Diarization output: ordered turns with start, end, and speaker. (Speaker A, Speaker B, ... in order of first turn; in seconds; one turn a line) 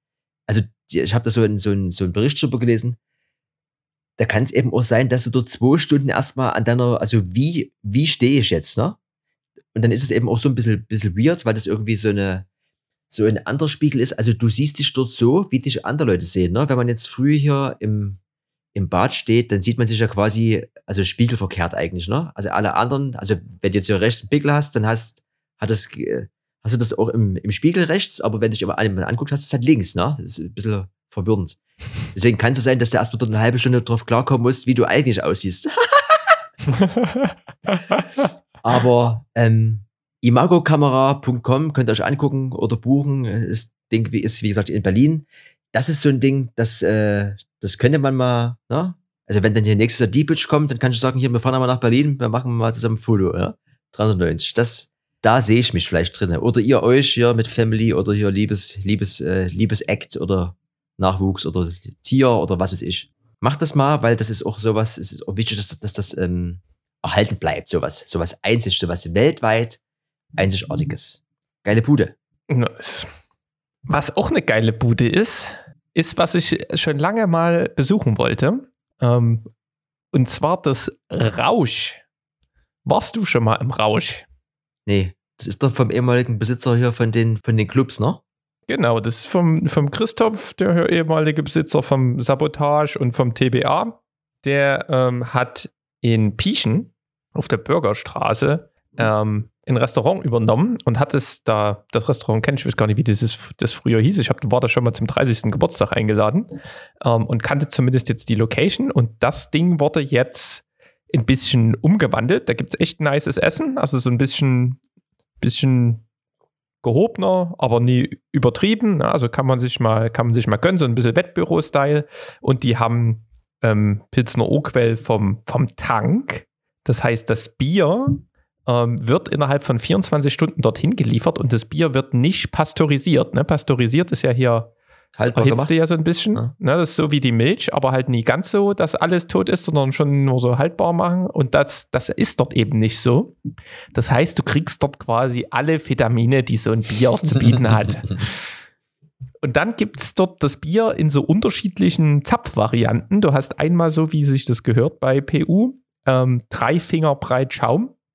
Speaker A: 0.5-3.0
Speaker A: 4.2-9.0
Speaker A: 9.7-12.4
Speaker A: 13.1-18.2
Speaker A: 18.7-36.2
Speaker B: 36.8-37.3
Speaker A: 38.6-69.8
Speaker A: 70.3-72.1
Speaker B: 72.5-73.1
Speaker B: 73.8-79.5
Speaker B: 80.1-82.0
Speaker B: 82.8-84.2
Speaker A: 84.8-88.2
Speaker B: 88.7-114.8
Speaker B: 115.4-116.0
Speaker B: 116.8-143.3
Speaker A: 135.1-135.8
Speaker B: 143.9-148.5
Speaker B: 149.4-157.9